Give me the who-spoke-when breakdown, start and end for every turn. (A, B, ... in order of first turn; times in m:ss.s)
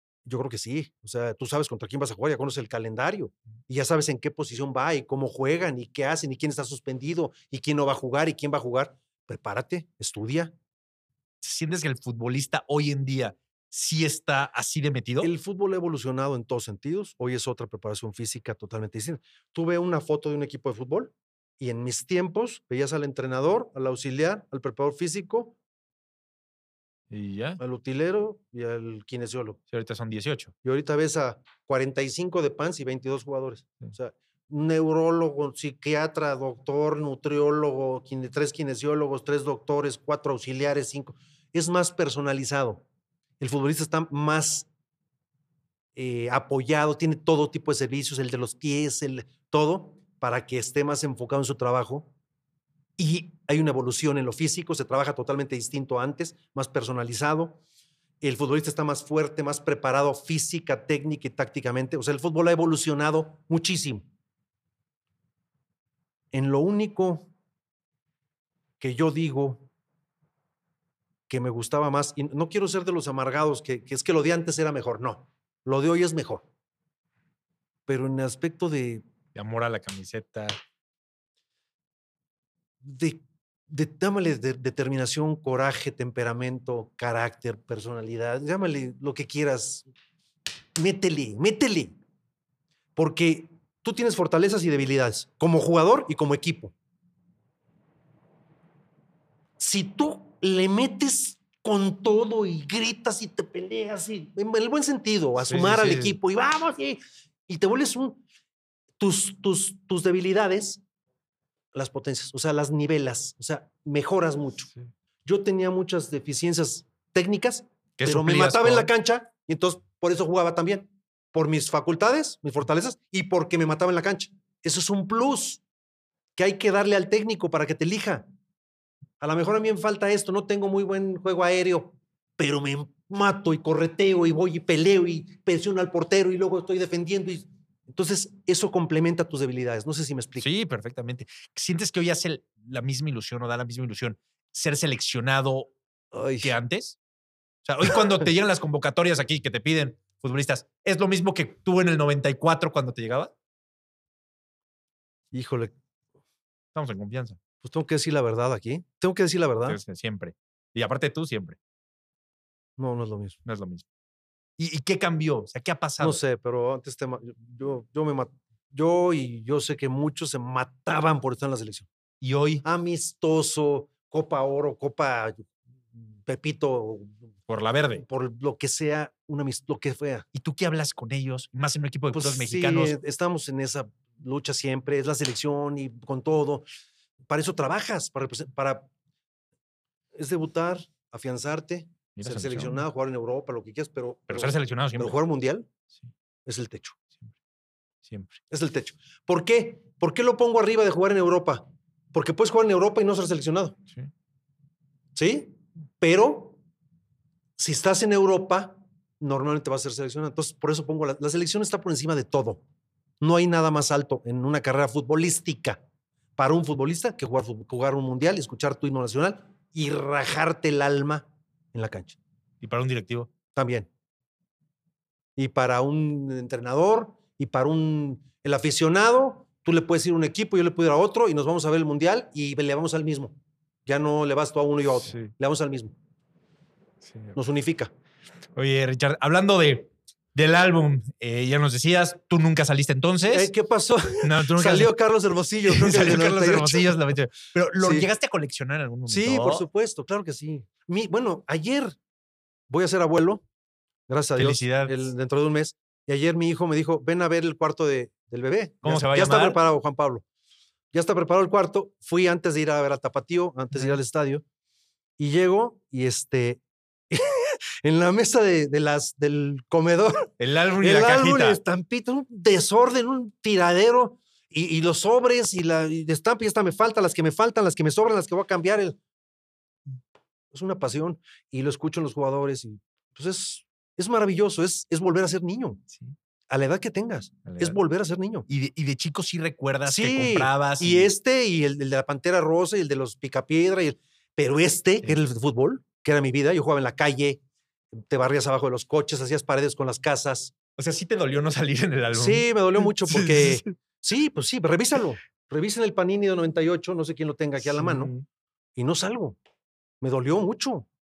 0:00.3-0:10.5 A
0:11.4-0:15.3 B
0:15.2-0:25.6 A
0:27.1-0:27.6 B
0:27.6-0:29.6 A
0:29.7-0:30.5 B
0:30.6-0:42.8 A
0:43.4-0:44.7 A
0:46.0-0:52.1 A
0:53.0-0:57.6 A
0:58.2-1:04.1 A
1:06.3-1:07.3 A
1:08.8-1:09.7 A
1:11.3-1:16.4 A
1:17.9-1:19.0 A
1:19.4-1:20.6 B
1:22.8-1:29.9 A
1:30.8-1:32.0 A
1:33.0-1:36.7 A
1:39.6-1:48.2 A
1:45.5-1:46.2 B
1:49.0-1:50.8 A
1:51.7-1:54.7 A
1:55.2-2:05.6 A
1:58.0-1:58.9 B
2:06.4-2:08.3 A
2:09.2-2:20.5 A
2:20.4-2:25.7 B
2:26.1-2:26.5 A
2:26.4-2:27.0 B
2:27.6-2:33.3 B
2:35.3-2:35.7 A
2:36.7-2:37.4 B
2:37.6-2:39.8 A
2:39.7-2:41.6 B
2:42.8-2:43.4 A
2:43.5-2:43.8 B
2:44.6-2:46.2 B
2:46.0-2:51.9 A
2:52.2-2:52.6 B
2:52.6-2:57.2 A
2:57.5-2:58.0 B
2:58.0-3:00.3 A
3:00.4-3:03.0 B
3:02.1-3:06.7 A
3:07.3-3:08.9 A
3:10.2-3:15.7 A
3:12.2-3:12.8 B
3:14.3-3:15.2 B
3:16.5-3:17.0 A
3:18.0-3:18.4 B
3:18.5-3:23.8 A
3:25.2-3:26.6 A
3:27.6-3:32.6 A
3:33.2-3:35.8 A
3:36.4-3:42.2 A
3:42.6-3:43.3 B
3:43.6-3:43.9 A
3:45.4-3:53.3 A
3:53.9-3:55.9 A
3:57.0-3:57.4 B
3:57.4-3:57.9 A
3:58.6-4:03.5 B
4:03.3-4:07.2 A
4:04.2-4:05.0 B
4:05.7-4:09.6 B
4:07.8-4:08.1 A
4:09.1-4:12.0 A
4:12.7-4:13.4 A
4:14.1-4:20.2 A
4:14.4-4:15.0 B
4:18.8-4:19.6 B
4:20.9-4:24.4 A
4:23.7-4:24.0 B
4:25.2-4:39.0 A
4:30.4-4:31.6 B
4:40.5-4:45.8 A
4:46.5-4:48.5 A
4:47.5-4:47.8 B
4:48.5-4:51.1 B
4:49.9-4:57.4 A
4:58.0-5:00.5 A
5:00.8-5:03.7 B
5:02.1-5:08.1 A
5:07.6-5:08.2 B
5:08.8-5:09.4 A
5:10.0-5:10.9 A